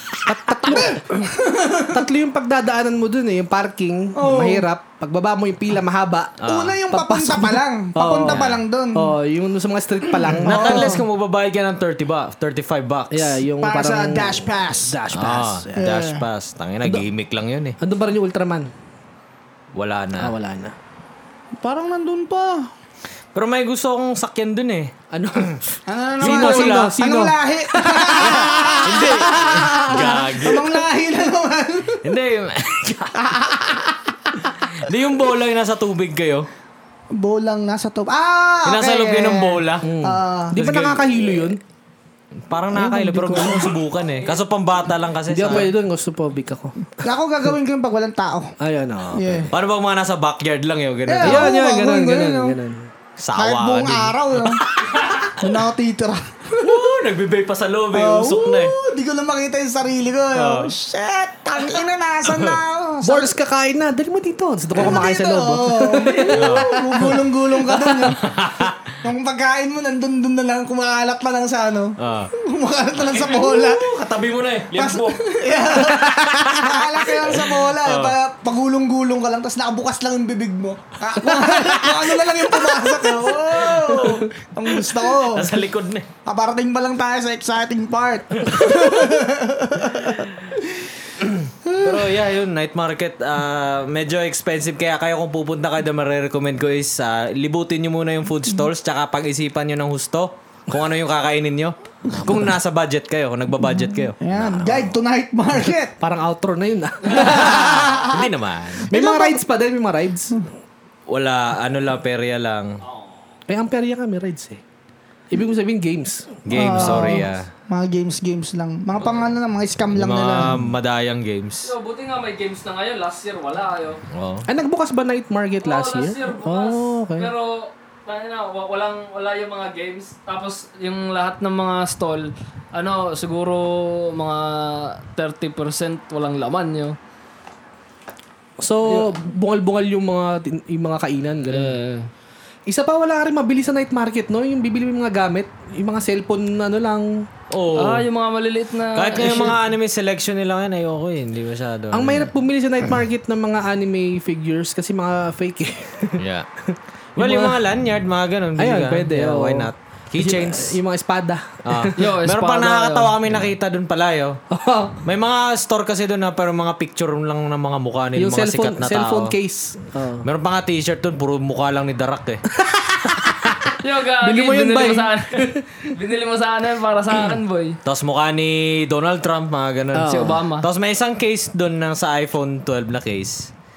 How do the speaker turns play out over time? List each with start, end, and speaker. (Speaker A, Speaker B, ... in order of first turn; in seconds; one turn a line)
Speaker A: 0.2-1.3
Speaker B: 0.4-2.0
Speaker A: 1.9-11.0
Speaker B: 4.2-4.6
Speaker C: 6.4-6.8
Speaker B: 6.4-9.1
Speaker C: 8.3-8.6
Speaker B: 10.3-11.0
Speaker C: 10.4-13.4
Speaker A: 13.1-15.9
Speaker B: 13.6-14.9
Speaker C: 15.1-17.8
Speaker B: 15.8-16.2
Speaker A: 17.8-18.7
Speaker C: 19.7-20.3
Speaker A: 20.2-20.7
Speaker B: 21.6-22.7
Speaker C: 23.3-25.6
Speaker A: 25.1-25.6
Speaker B: 25.9-32.1
Speaker C: 26.2-27.0
Speaker A: 26.2-29.6
Speaker C: 28.1-30.8
Speaker C: 32.0-33.3
Speaker B: 33.2-34.4
Speaker C: 34.7-36.5
Speaker B: 37.1-40.6
Speaker C: 38.6-39.9
Speaker A: 39.8-41.6
Speaker C: 40.5-41.5
Speaker C: 42.4-45.7
Speaker B: 42.7-43.7
Speaker A: 43.2-43.5
Speaker A: 45.3-47.0
Speaker B: 47.0-48.5
Speaker A: 48.6-49.5
Speaker B: 49.1-49.5
Speaker C: 49.5-51.5
Speaker B: 51.1-52.6
Speaker A: 51.2-52.9
Speaker C: 53.2-55.3
Speaker B: 53.4-56.8
Speaker C: 56.5-58.8
Speaker B: 57.9-63.3
Speaker C: 60.3-60.7
Speaker C: 62.2-62.6
Speaker A: 63.0-68.1
Speaker B: 64.7-68.3
Speaker C: 66.3-67.1
Speaker C: 68.2-68.9
Speaker B: 69.0-73.8
Speaker C: 72.0-72.3
Speaker C: 73.0-75.3
Speaker B: 74.7-85.6
Speaker C: 76.1-78.2
Speaker C: 83.3-84.2
Speaker C: 84.8-86.1
Speaker B: 86.2-90.9
Speaker C: 88.5-89.1
Speaker C: 91.2-104.9
Speaker B: 91.6-92.0
Speaker B: 102.1-102.5
Speaker B: 104.2-105.9
Speaker A: 106.0-107.9
Speaker B: 107.1-108.3
Speaker C: 107.2-108.9
Speaker B: 108.8-109.4
Speaker A: 108.9-110.4
Speaker C: 111.1-112.8
Speaker A: 113.5-114.6
Speaker A: 115.3-117.2
Speaker C: 116.4-117.5
Speaker B: 116.5-120.6
Speaker C: 119.9-121.7
Speaker D: 121.6-124.0
Speaker C: 124.1-124.5
Speaker A: 124.5-127.3
Speaker D: 125.6-137.0
Speaker A: 138.6-141.8
Speaker D: 141.5-142.1
Speaker A: 142.7-147.3
Speaker C: 147.5-148.1
Speaker D: 147.7-149.6
Speaker C: 148.9-152.3
Speaker A: 151.9-157.6
Speaker C: 156.2-156.5
Speaker C: 157.2-160.8
Speaker A: 158.6-161.9
Speaker C: 161.6-164.4
Speaker D: 161.9-163.2
Speaker A: 164.5-165.0
Speaker C: 165.0-169.3
Speaker A: 168.2-170.3
Speaker C: 170.2-172.4
Speaker A: 172.5-175.9
Speaker D: 173.7-177.8
Speaker C: 177.8-183.5
Speaker A: 179.9-180.4
Speaker D: 180.0-180.7